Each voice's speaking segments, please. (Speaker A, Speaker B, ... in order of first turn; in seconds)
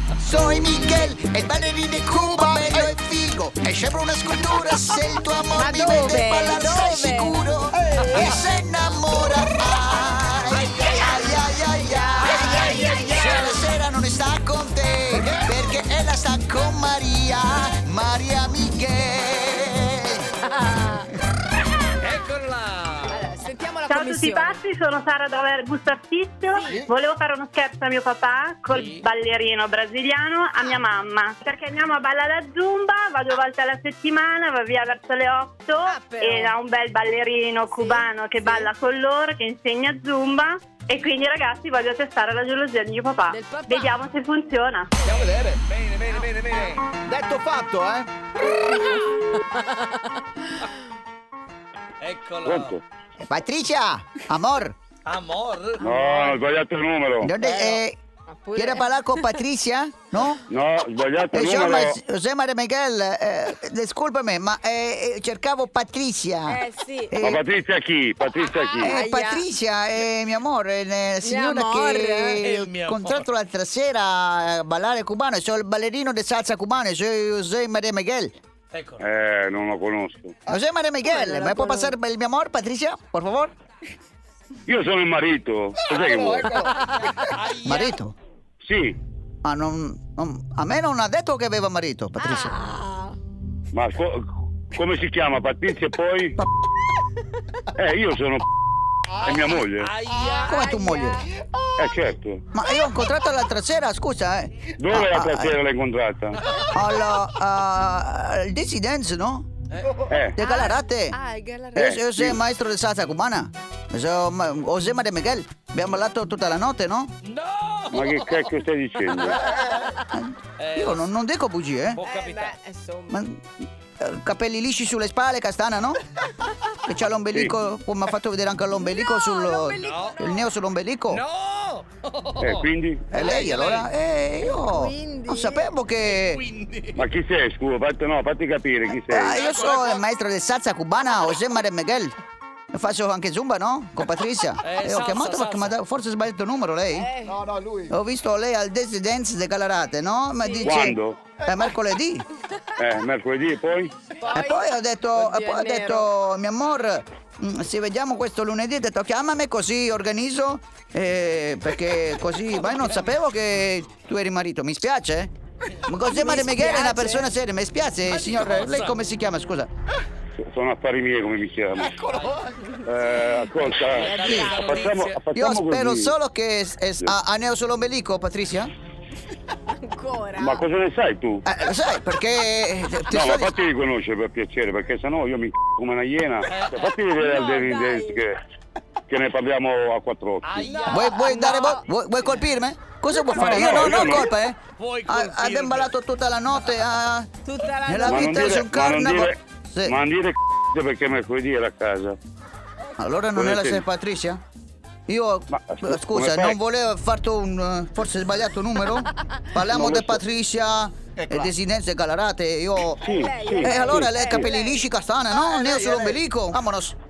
Speaker A: 0.2-20.3, 53.2-54.8, 57.2-58.0, 58.5-60.4, 61.3-66.6, 67.1-67.4, 68.8-78.3, 80.5-83.5, 87.6-88.1, 89.4-92.5, 100.5-101.2, 102.5-105.6, 106.7-109.5, 110.3-111.2, 111.7-117.1, 119.9-122.0, 123.1-123.5, 124.0-126.0, 126.8-131.2, 133.1-136.4, 138.9-142.1, 142.7-147.1, 147.9-152.2, 154.3-165.3, 165.8-169.7, 174.2-174.6, 175.3-178.7, 181.4-183.5, 190.9-197.3, 197.8-199.9, 203.0-204.4, 205.1-213.0, 213.6-216.9
Speaker B: 5.5-7.3, 20.6-21.0, 23.1-24.6, 35.9-36.5, 37.8-38.7, 43.3-43.9, 57.4-57.8, 58.3-59.3, 66.5-67.2, 68.8-69.4, 71.2-72.4, 81.1-81.9, 92.2-93.2, 100.4-101.2, 110.4-111.8, 122.0-123.2, 129.0-130.5, 134.7-135.6, 147.0-147.4, 154.2-154.6, 155.2-156.1, 166.1-167.1, 174.0-174.8, 179.7-180.7, 187.2-188.2, 190.7-191.8, 197.4-198.3, 213.1-214.8
Speaker C: 10.5-11.4, 12.2-13.6, 22.0-23.2, 28.7-29.0, 45.0-46.9, 52.0-52.7, 55.0-55.9, 72.4-73.3, 78.7-79.0, 86.7-88.0, 99.8-100.7, 109.7-110.0, 117.2-118.5, 119.2-119.9, 120.6-121.1, 121.9-122.5, 129.8-130.2, 131.1-133.9, 136.0-137.0, 139.4-139.9, 144.6-145.8, 168.1-169.0, 172.0-172.5, 173.7-175.2, 186.5-186.9, 190.4-191.8, 193.3-194.2, 194.8-195.9
Speaker D: 23.9-44.9
Speaker E: 45.1-45.6, 47.1-48.1, 86.0-86.8, 147.3-147.9
Speaker F: 52.4-52.8, 55.8-57.4, 60.5-62.0, 67.2-69.0, 79.0-80.3, 84.7-86.7, 88.6-89.0, 93.7-96.4, 97.7-98.5, 99.2-99.9, 101.8-102.4, 104.8-106.4, 110.1-110.4, 111.8-112.4, 117.9-119.4, 132.4-133.1, 136.9-139.4, 150.6-151.2, 152.8-153.9, 170.4-172.0, 172.8-176.1, 180.3-181.4, 183.1-188.4, 189.1-190.8, 193.3-194.3, 198.1-202.2, 203.3-203.8, 205.5-206.6, 209.6-210.2, 213.0-214.4